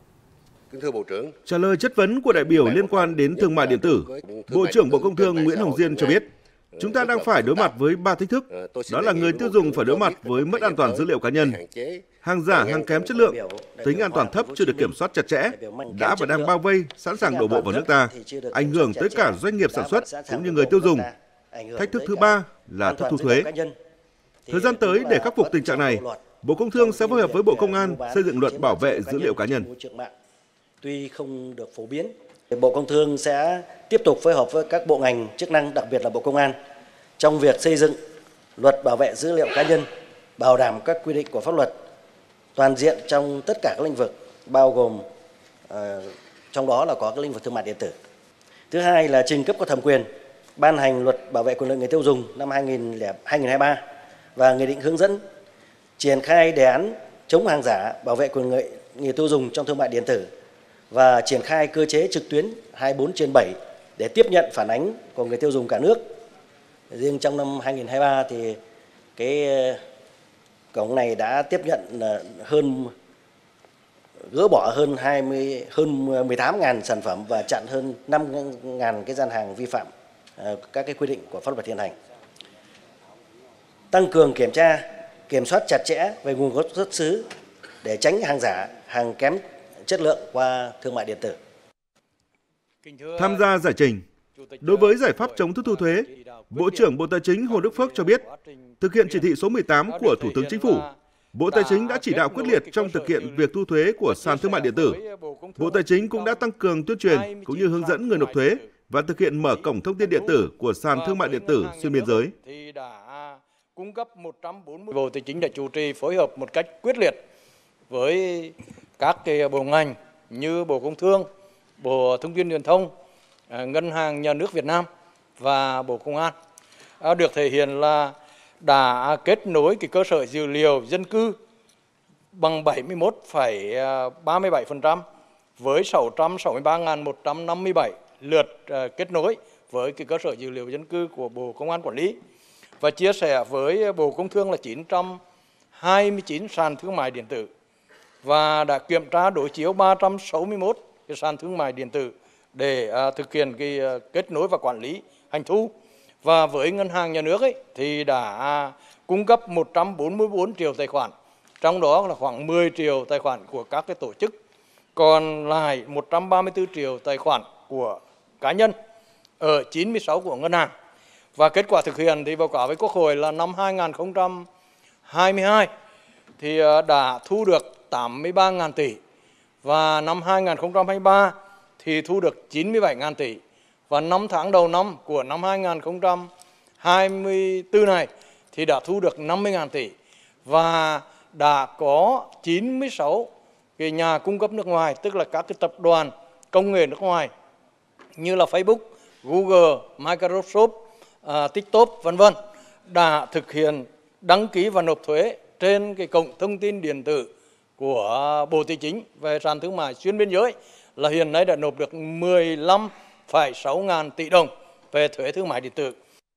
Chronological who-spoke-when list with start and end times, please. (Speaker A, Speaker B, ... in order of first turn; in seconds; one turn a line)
Speaker A: 0.7-1.4
Speaker B: 1.5-6.3
Speaker A: 2.3-7.8
Speaker B: 6.8-11.6
Speaker A: 8.5-13.0
Speaker B: 12.2-21.1
Speaker C: 12.7-14.9
Speaker C: 15.5-16.5
Speaker C: 17.1-23.8
Speaker B: 21.8-23.5
Speaker C: 24.5-30.1
Speaker B: 24.5-29.7
Speaker C: 30.8-36.5
Speaker C: 37.2-38.0
Speaker C: 38.6-39.9
Speaker C: 40.4-41.7
Speaker C: 42.6-45.0
Speaker C: 45.7-47.9
Speaker C: 48.7-53.8
Speaker C: 54.4-55.2
Speaker C: 56.0-60.3
Speaker C: 60.9-66.0
Speaker C: 66.9-68.6
Speaker C: 69.2-69.8
Speaker C: 70.7-72.9
Speaker C: 74.3-81.9
Speaker C: 83.9-87.3
Speaker C: 87.8-91.4
Speaker D: 92.8-93.5
Speaker B: 93.2-94.0
Speaker D: 94.3-96.9
Speaker B: 94.6-98.2
Speaker D: 97.5-99.3
Speaker B: 98.8-105.0
Speaker D: 99.9-101.0
Speaker D: 101.5-103.5
Speaker D: 104.0-106.4
Speaker B: 105.6-112.3
Speaker D: 107.0-108.7
Speaker D: 109.4-117.2
Speaker D: 117.9-121.3
Speaker D: 121.8-122.9
Speaker D: 123.5-124.9
Speaker D: 125.4-126.3
Speaker D: 127.0-131.4
Speaker D: 132.3-135.0
Speaker D: 135.6-142.2
Speaker D: 142.8-145.2
Speaker D: 145.8-147.5
Speaker D: 148.2-164.4
Speaker D: 165.0-168.8
Speaker D: 169.4-170.7
Speaker D: 171.4-174.5
Speaker D: 175.1-175.7
Speaker D: 176.4-179.0
Speaker D: 179.6-189.9
Speaker D: 190.5-197.3
Speaker D: 198.2-202.4
Speaker D: 202.9-216.0